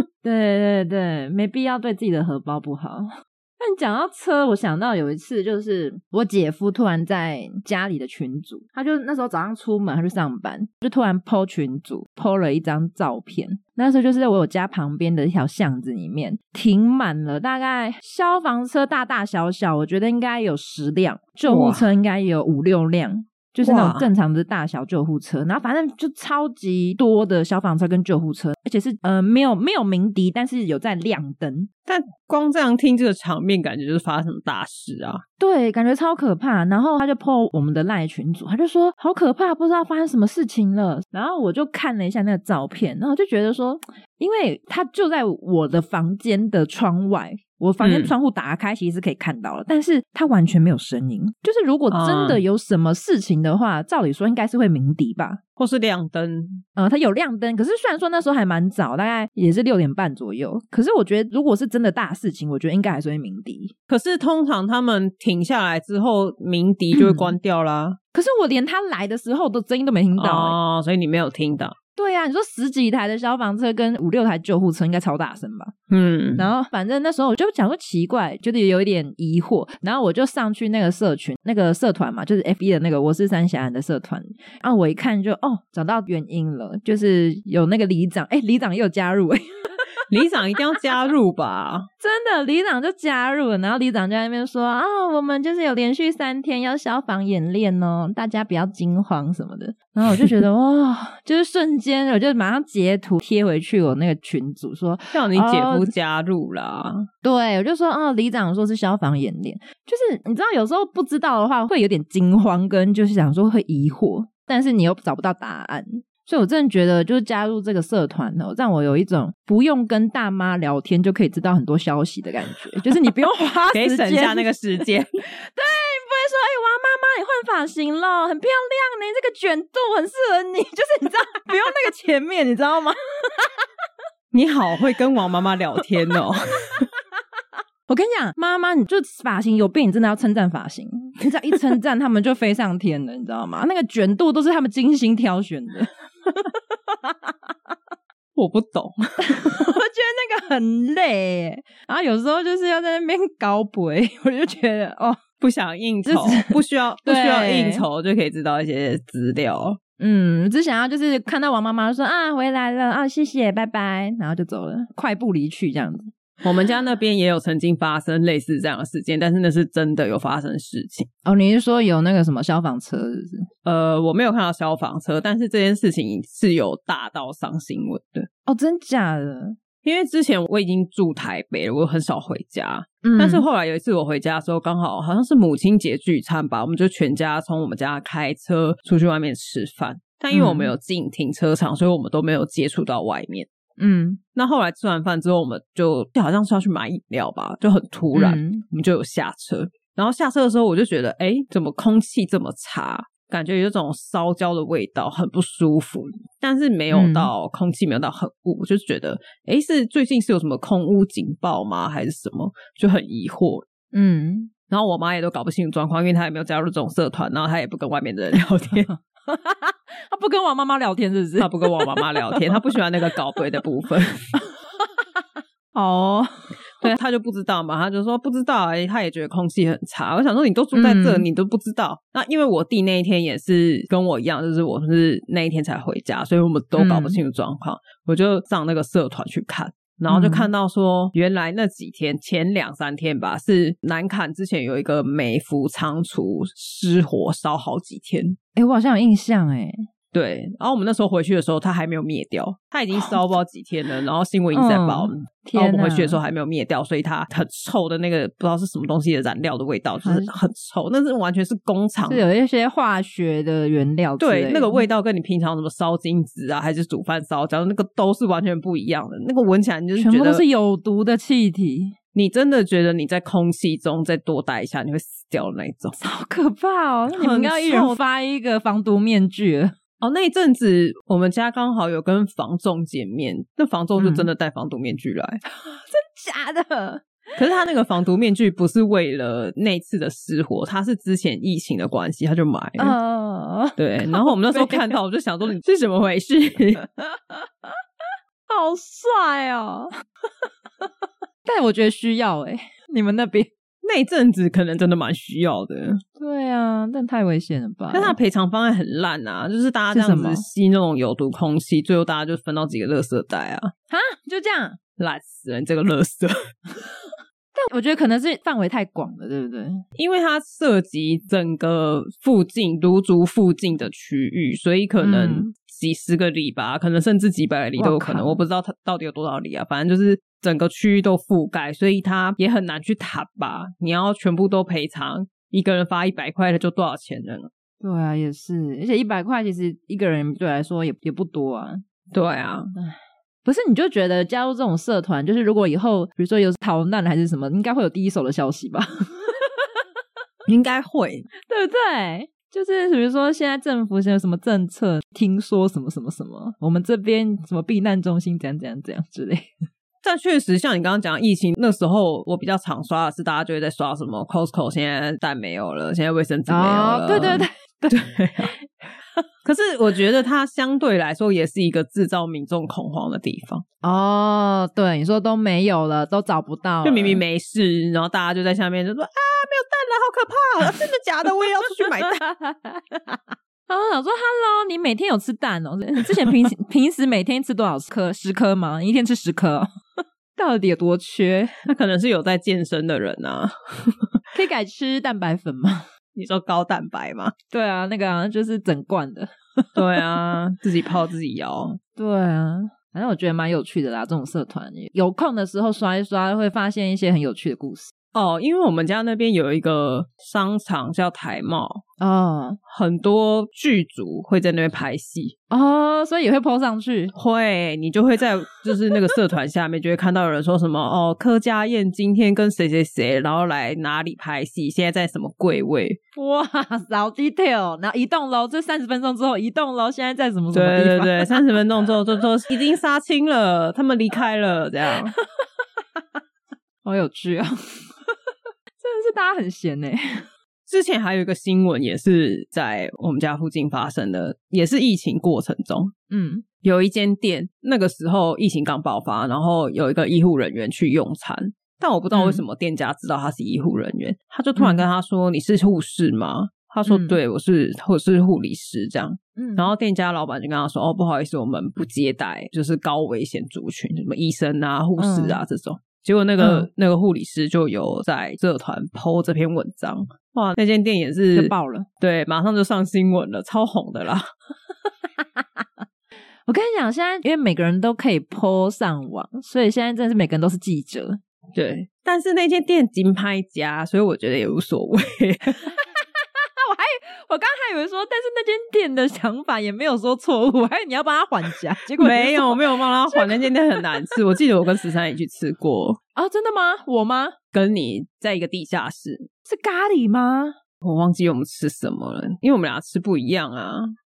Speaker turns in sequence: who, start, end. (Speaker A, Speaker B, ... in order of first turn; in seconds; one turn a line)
Speaker A: 0.2-31.7
Speaker B: 21.5-21.9
Speaker B: 23.6-24.1
Speaker B: 31.9-35.2
Speaker A: 35.4-55.4
Speaker B: 47.8-48.1
Speaker B: 51.9-52.4
Speaker B: 55.6-56.6
Speaker A: 56.8-63.7
Speaker B: 63.9-68.0
Speaker A: 66.9-67.3
Speaker A: 68.1-70.6
Speaker B: 70.2-71.8
Speaker A: 72.0-75.7
Speaker B: 75.9-76.5
Speaker A: 76.4-89.9
Speaker B: 90.1-91.9
Speaker A: 92.0-105.9
Speaker B: 105.1-107.1
Speaker A: 107.2-124.5
Speaker B: 123.7-125.1
Speaker A: 125.3-133.5
Speaker B: 134.3-136.9
Speaker A: 137.9-147.3
Speaker B: 148.4-149.7
Speaker A: 149.2-155.2
Speaker B: 155.4-159.8
Speaker A: 156.1-157.8
Speaker A: 160.0-166.1
Speaker B: 166.4-171.1
Speaker A: 171.2-173.5
Speaker B: 173.7-178.3
Speaker A: 178.5-179.6
Speaker B: 179.8-193.5
Speaker A: 183.0-183.4
Speaker A: 190.3-190.7
Speaker A: 193.8-194.2
Speaker B: 194.3-213.7
Speaker A: 198.1-198.6
Speaker A: 206.9-207.3
Speaker A: 213.9-214.5
Speaker B: 214.7-218.9
Speaker A: 218.9-222.6
Speaker B: 221.4-224.3
Speaker A: 224.4-225.2
Speaker A: 225.7-226.9
Speaker B: 226.8-248.4
Speaker A: 230.7-231.3
Speaker A: 236.8-237.2
Speaker A: 240.1-240.5
Speaker A: 248.6-249.8
Speaker B: 250.1-262.2
Speaker A: 254.5-256.2
Speaker A: 260.0-260.3
Speaker A: 262.1-264.8
Speaker B: 264.2-270.4
Speaker A: 270.0-271.9
Speaker B: 272.1-276.0
Speaker A: 276.0-279.7
Speaker B: 277.1-278.0
Speaker B: 280.0-285.4
Speaker A: 284.0-284.3
Speaker A: 285.5-287.1
Speaker B: 287.4-292.9
Speaker A: 292.8-294.9
Speaker B: 293.8-296.8
Speaker A: 297.0-297.8
Speaker A: 298.5-299.9
Speaker A: 301.4-303.5
Speaker B: 303.8-306.0
Speaker A: 306.2-308.1
Speaker B: 307.9-313.7
Speaker A: 309.9-310.4
Speaker A: 313.9-314.8
Speaker B: 315.0-316.4
Speaker A: 317.6-319.8
Speaker B: 320.0-337.5
Speaker A: 325.0-325.5
Speaker A: 327.8-328.4
Speaker A: 337.8-341.8
Speaker B: 342.1-342.7
Speaker A: 342.8-349.8
Speaker B: 350.5-351.2
Speaker A: 351.5-359.5
Speaker B: 360.0-368.5
Speaker A: 366.5-368.0
Speaker B: 369.4-373.6
Speaker A: 373.8-377.2
Speaker B: 376.8-382.2
Speaker A: 382.0-389.7
Speaker A: 390.4-391.5
Speaker B: 391.6-394.0
Speaker A: 394.3-395.9
Speaker B: 396.2-397.3
Speaker A: 397.5-400.0
Speaker B: 399.8-401.8
Speaker A: 402.0-407.9
Speaker B: 408.1-411.8
Speaker A: 412.0-412.6
Speaker B: 412.7-415.4
Speaker A: 415.5-417.1
Speaker B: 417.1-426.0
Speaker A: 418.7-419.0
Speaker A: 426.2-431.4
Speaker B: 430.5-435.1
Speaker A: 435.1-435.4
Speaker A: 436.8-438.1
Speaker A: 438.8-440.3
Speaker B: 440.7-445.9
Speaker A: 446.1-446.4
Speaker B: 446.6-474.3
Speaker A: 452.1-452.4
Speaker A: 454.6-454.8
Speaker A: 456.9-457.2
Speaker A: 459.4-459.7
Speaker A: 465.0-465.4
Speaker A: 466.4-466.7
Speaker A: 471.4-471.9
Speaker A: 476.5-481.2
Speaker B: 481.5-485.6
Speaker A: 485.7-486.0
Speaker A: 486.6-494.1
Speaker B: 492.0-496.0
Speaker A: 496.2-497.4
Speaker B: 497.5-499.3
Speaker A: 499.5-500.6
Speaker B: 500.8-503.9